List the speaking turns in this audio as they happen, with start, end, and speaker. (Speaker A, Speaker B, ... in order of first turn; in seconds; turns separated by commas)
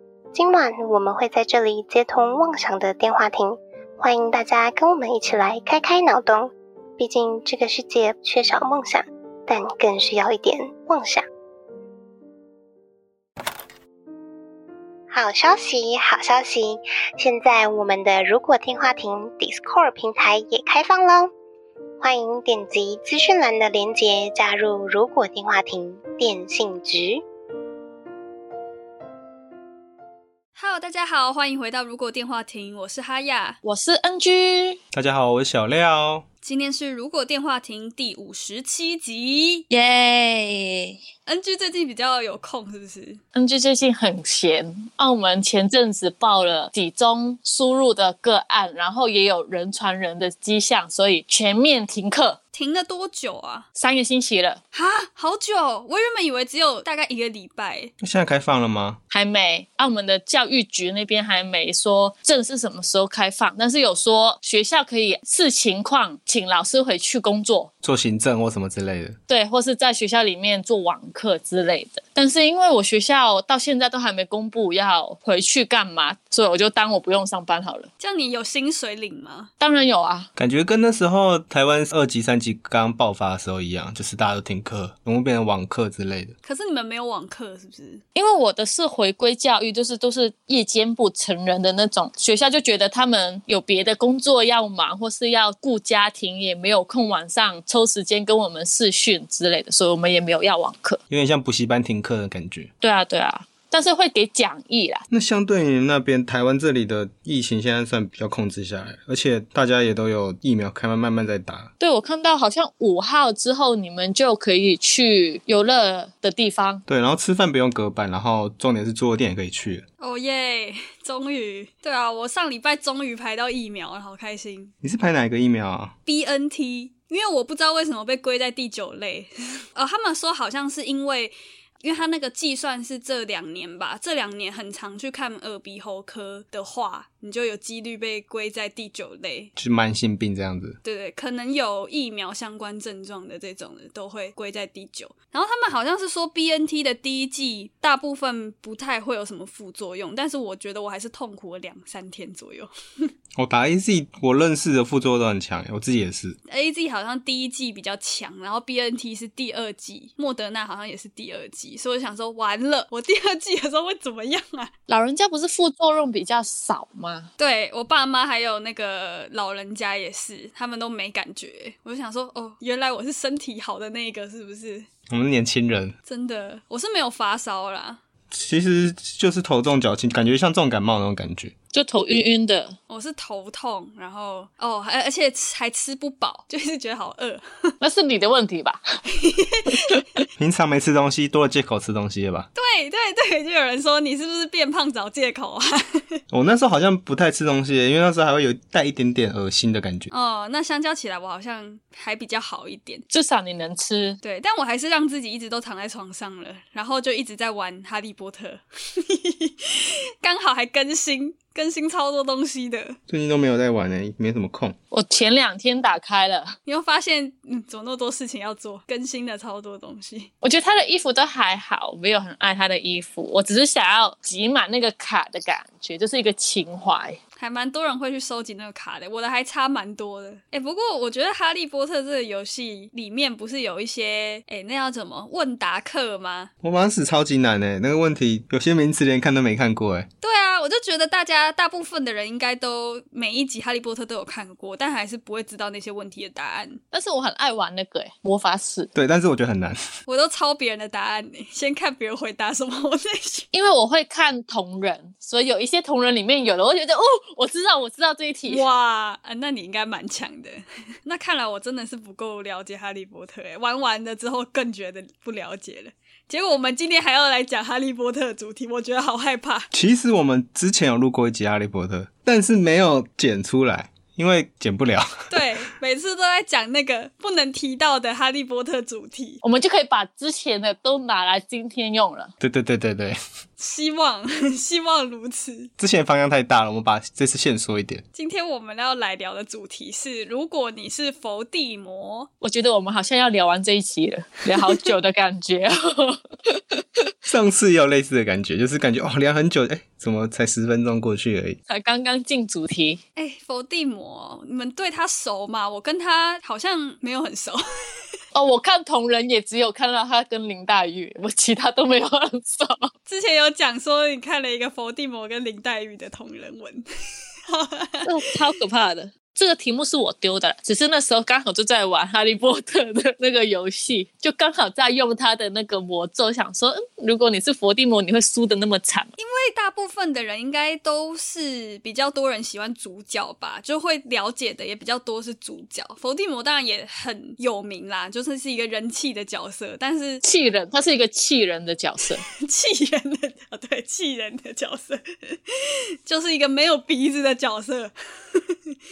Speaker A: 0.3-11.2, Speaker A: 15.1-21.3, Speaker A: 22.0-27.2, Speaker B: 30.6-33.6, Speaker C: 33.6-34.8, Speaker D: 34.9-36.2, Speaker B: 36.4-39.6, Speaker C: 39.7-41.0, Speaker B: 41.2-43.2, Speaker C: 43.3-52.4, Speaker B: 52.5-53.7, Speaker C: 53.8-54.6, Speaker B: 54.7-57.9, Speaker D: 58.0-59.0, Speaker C: 59.1-67.7, Speaker D: 67.8-69.2, Speaker C: 69.3-77.9, Speaker B: 78.0-79.5, Speaker C: 79.6-80.3, Speaker D: 80.3-86.3, Speaker B: 86.4-88.0, Speaker C: 88.1-101.0, Speaker D: 101.1-102.7, Speaker C: 102.8-105.0, Speaker D: 105.1-111.7, Speaker C: 111.8-116.8, Speaker D: 116.9-119.8, Speaker B: 120.0-124.7, Speaker D: 124.8-125.9, Speaker B: 126.1-139.5, Speaker D: 139.6-140.8, Speaker B: 140.8-153.1, Speaker D: 153.4-156.4, Speaker B: 156.5-164.7, Speaker C: 164.9-167.3, Speaker B: 167.4-174.9, Speaker D: 175.1-175.9, Speaker B: 176.1-178.0, Speaker D: 178.3-181.5, Speaker C: 181.7-182.8, Speaker B: 182.9-187.7, Speaker C: 187.8-188.8, Speaker B: 189.2-190.0, Speaker D: 190.4-192.5, Speaker B: 192.6-196.2, Speaker D: 196.3-200.1, Speaker B: 200.1-203.0, Speaker C: 203.1-204.2, Speaker B: 204.2-213.0, Speaker D: 213.1-214.8, Speaker C: 214.9-216.5, Speaker B: 216.7-220.3, Speaker C: 220.4-227.2, Speaker B: 227.4-236.5, Speaker D: 236.6-240.1, Speaker B: 240.2-246.8, Speaker C: 246.9-248.9, Speaker D: 248.9-249.8, Speaker B: 250.1-253.5, Speaker C: 253.5-258.6, Speaker B: 258.5-269.7, Speaker D: 269.7-275.1, Speaker B: 275.3-279.4, Speaker C: 279.4-282.3, Speaker D: 282.4-283.2, Speaker B: 283.6-285.7, Speaker D: 285.8-288.0, Speaker B: 288.1-292.3, Speaker C: 292.4-296.8, Speaker D: 297.3-301.6, Speaker C: 301.7-303.0, Speaker B: 303.1-307.6, Speaker C: 308.3-312.9, Speaker B: 313.1-316.9, Speaker B: 317.5-318.1, Speaker C: 318.0-329.1, Speaker B: 329.2-340.2, Speaker C: 340.2-342.2, Speaker B: 342.2-345.5, Speaker B: 346.0-348.7